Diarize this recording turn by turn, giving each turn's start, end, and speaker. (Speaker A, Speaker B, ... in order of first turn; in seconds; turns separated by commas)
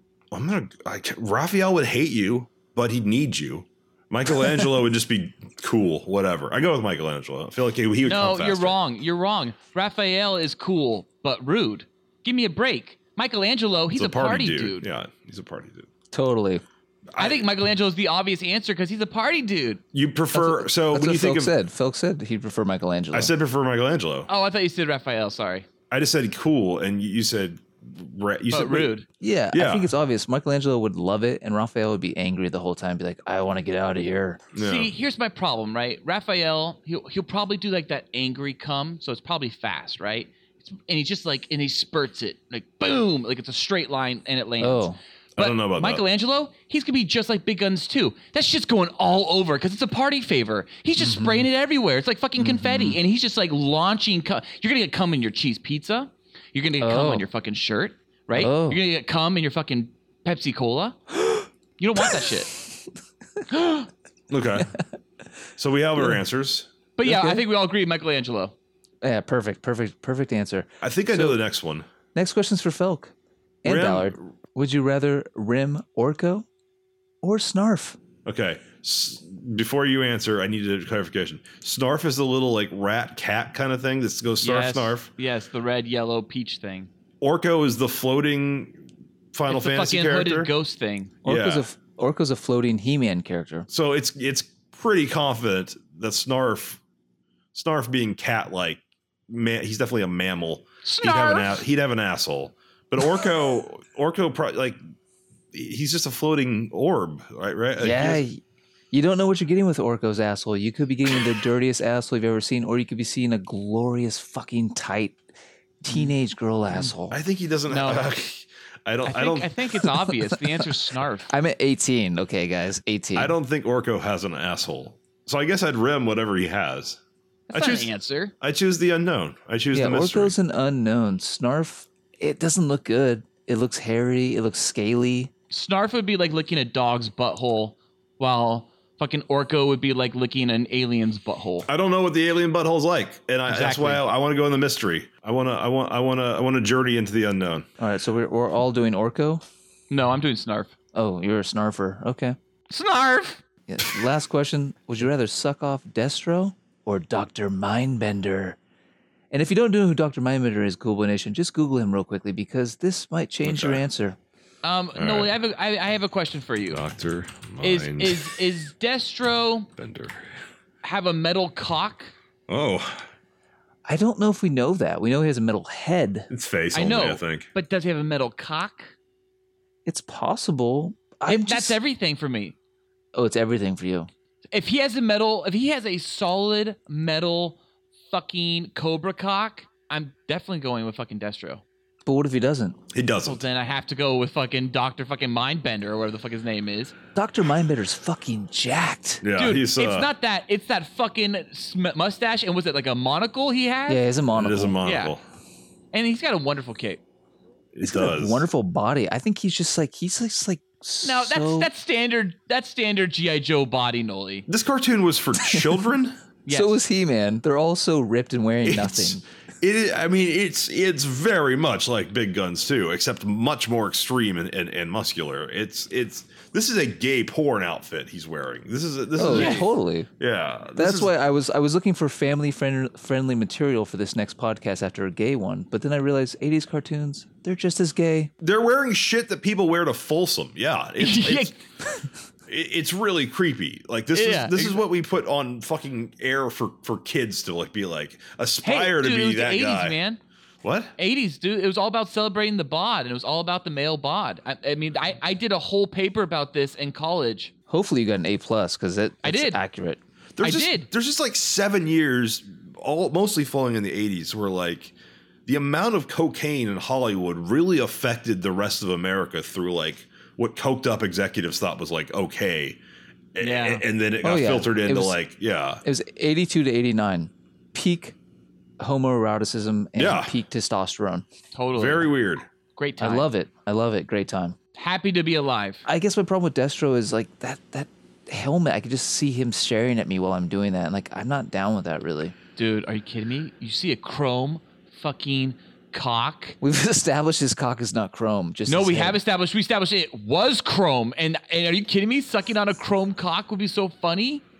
Speaker A: 0.3-8.8, Speaker B: 8.0-14.8, Speaker A: 13.9-15.9, Speaker C: 16.1-16.6, Speaker A: 17.1-17.4, Speaker B: 17.2-19.8, Speaker A: 19.9-21.5, Speaker C: 20.3-23.3, Speaker A: 23.1-24.3, Speaker B: 24.3-25.7, Speaker A: 25.9-28.9, Speaker B: 28.5-29.0, Speaker C: 29.2-34.4, Speaker A: 29.5-29.9, Speaker A: 34.5-34.9, Speaker B: 34.5-61.0, Speaker C: 44.6-45.0, Speaker A: 45.4-46.0, Speaker C: 51.0-51.5, Speaker C: 52.4-53.0, Speaker C: 56.8-57.2, Speaker C: 58.3-58.8, Speaker B: 61.8-62.5, Speaker B: 63.5-63.9, Speaker A: 64.3-64.7, Speaker A: 65.6-66.7, Speaker B: 67.0-68.5, Speaker C: 67.0-67.4, Speaker C: 69.0-71.4, Speaker A: 70.8-71.8, Speaker C: 72.1-73.1, Speaker C: 73.6-76.5, Speaker A: 73.6-74.2, Speaker C: 77.2-78.0, Speaker A: 78.2-85.1, Speaker B: 84.4-86.9, Speaker A: 87.2-88.8, Speaker A: 89.3-90.5, Speaker B: 89.5-91.1, Speaker C: 91.2-93.7, Speaker A: 91.2-91.6, Speaker A: 93.7-96.8, Speaker A: 97.5-104.8, Speaker B: 100.8-101.6, Speaker A: 105.5-108.2, Speaker C: 107.8-108.4, Speaker C: 108.9-115.2, Speaker C: 115.8-117.2, Speaker A: 117.1-119.5, Speaker B: 117.7-118.1, Speaker B: 119.0-121.3, Speaker C: 121.3-123.3, Speaker A: 123.2-127.0, Speaker B: 127.5-128.3, Speaker A: 127.5-130.3, Speaker C: 129.7-135.3, Speaker B: 135.5-141.7, Speaker A: 141.7-147.7, Speaker B: 143.5-144.0, Speaker C: 147.8-149.4, Speaker B: 149.9-150.7, Speaker C: 150.9-152.3, Speaker B: 152.7-153.4, Speaker C: 153.7-158.6, Speaker C: 159.3-164.2, Speaker A: 163.4-163.8, Speaker B: 164.6-166.8, Speaker A: 164.9-165.3, Speaker A: 166.7-168.3, Speaker B: 167.6-169.7, Speaker A: 169.8-170.2, Speaker B: 170.8-172.1, Speaker A: 172.5-173.1, Speaker C: 173.8-176.3, Speaker A: 176.3-177.5, Speaker B: 176.7-178.9, Speaker C: 179.8-181.8, Speaker B: 181.3-182.5, Speaker C: 183.1-184.1, Speaker B: 184.5-187.6, Speaker B: 188.1-191.6, Speaker C: 192.0-192.8, Speaker A: 192.9-193.4, Speaker B: 193.2-196.9, Speaker C: 197.1-199.2, Speaker A: 199.2-200.1, Speaker B: 199.3-204.0, Speaker C: 203.9-204.8, Speaker A: 204.3-205.2, Speaker B: 204.8-205.1, Speaker B: 205.9-207.0, Speaker A: 207.7-208.4, Speaker C: 207.8-211.7, Speaker B: 211.0-214.4, Speaker A: 214.5-216.2, Speaker B: 216.4-216.7, Speaker C: 216.5-219.2, Speaker A: 218.6-229.7, Speaker C: 229.2-230.1, Speaker B: 229.3-229.6, Speaker A: 230.2-231.1, Speaker C: 230.8-238.3, Speaker A: 238.4-241.5, Speaker B: 241.0-241.6, Speaker A: 242.5-250.0, Speaker B: 244.1-244.8, Speaker B: 248.6-250.2, Speaker A: 250.6-250.9, Speaker B: 251.0-257.5, Speaker C: 257.7-260.0, Speaker B: 259.2-259.6, Speaker A: 260.4-264.9, Speaker B: 260.4-260.9, Speaker A: 265.4-272.8, Speaker A: 273.3-275.8, Speaker B: 273.4-273.8, Speaker C: 274.2-275.2, Speaker C: 275.8-278.1, Speaker C: 278.8-281.2, Speaker A: 279.9-280.3, Speaker B: 281.5-282.1, Speaker A: 281.7-282.4, Speaker B: 282.8-283.3, Speaker C: 283.0-284.6, Speaker B: 284.7-285.8, Speaker C: 285.9-292.3, Speaker B: 292.6-296.6, Speaker C: 296.6-299.2, Speaker B: 298.7-304.4